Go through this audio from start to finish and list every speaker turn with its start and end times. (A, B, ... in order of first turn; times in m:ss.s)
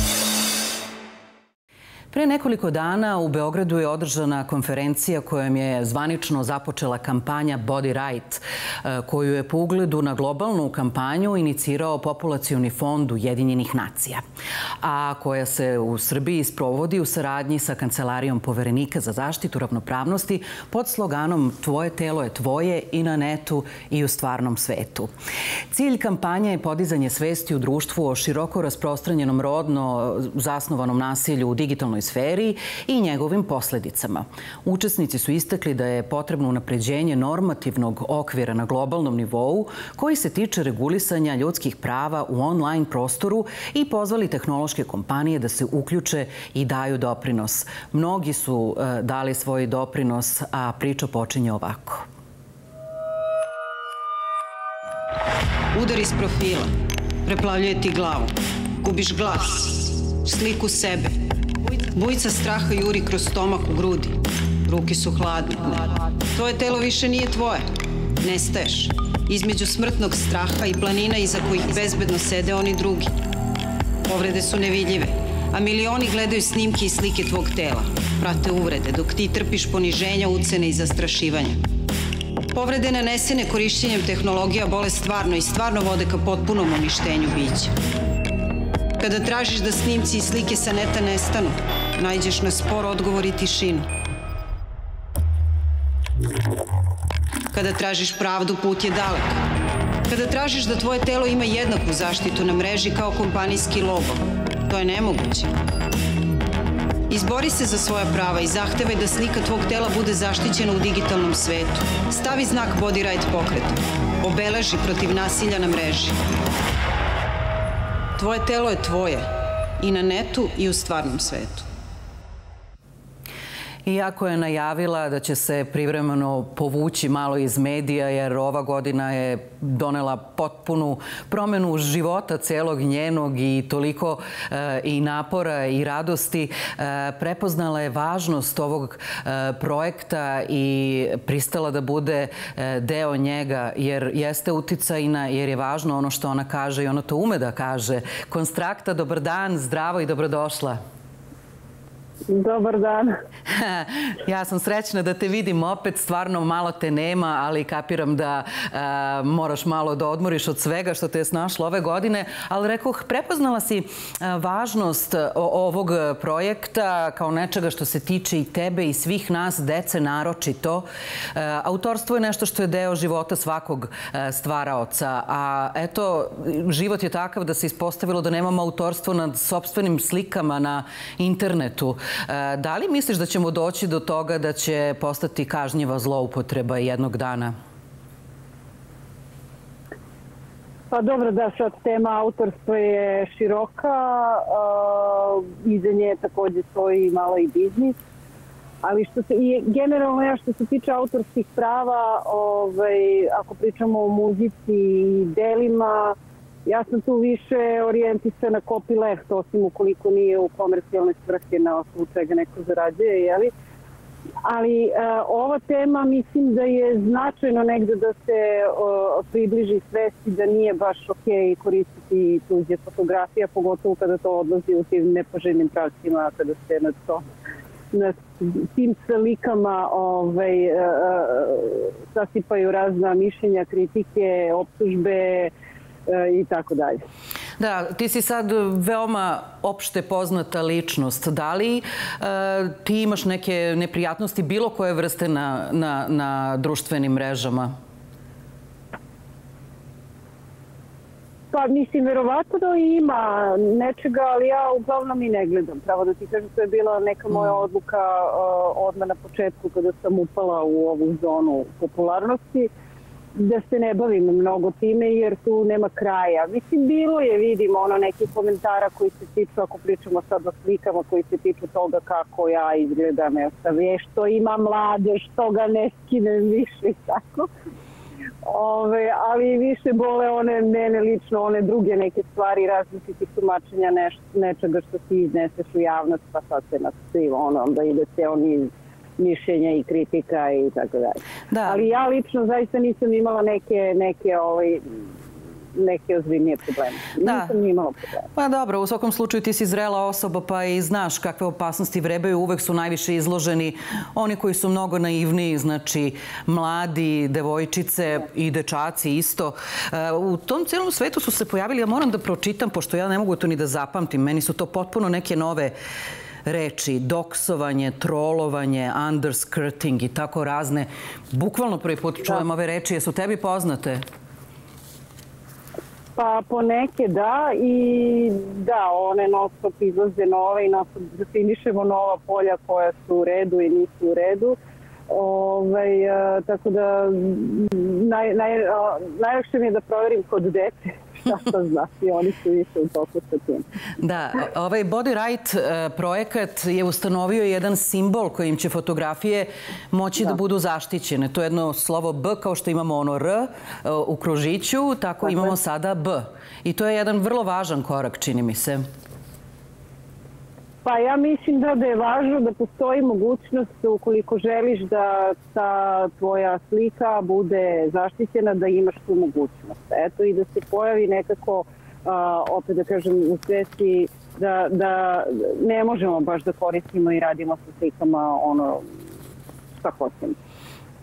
0:02.1-0:14.2 A
0:14.8-0:25.1 A
0:25.7-0:52.0 A
0:55.7-0:56.7 B
0:57.2-1:01.2 B
1:01.8-1:07.6 B
1:08.2-1:13.1 B
1:14.0-1:21.6 B
1:22.5-1:27.7 B
1:29.0-1:33.9 B
1:37.5-1:39.4 B
1:40.1-1:45.5 B
1:47.1-1:56.2 B
1:58.2-1:59.3 B
1:59.8-2:01.6 B
2:03.8-2:30.8 A
2:32.3-2:33.2 C
2:33.5-3:07.5 A
3:10.9-3:18.0 C
3:18.8-3:33.5 C
3:34.4-3:47.3 C
3:47.9-3:55.5 C
3:56.0-3:57.0 C
3:57.6-4:07.7 A
4:11.5-4:22.7 C
4:23.3-4:37.5 C
4:38.4-4:55.0 C
4:51.5-4:51.8 A
4:55.8-4:58.3 C
4:57.2-4:57.5 A
4:58.3-5:15.7 A
5:16.4-5:24.0 A
5:26.2-5:34.6 C
5:35.1-5:43.6 C
5:44.0-5:58.8 A
6:00.8-6:18.8 C
6:19.8-6:20.4 C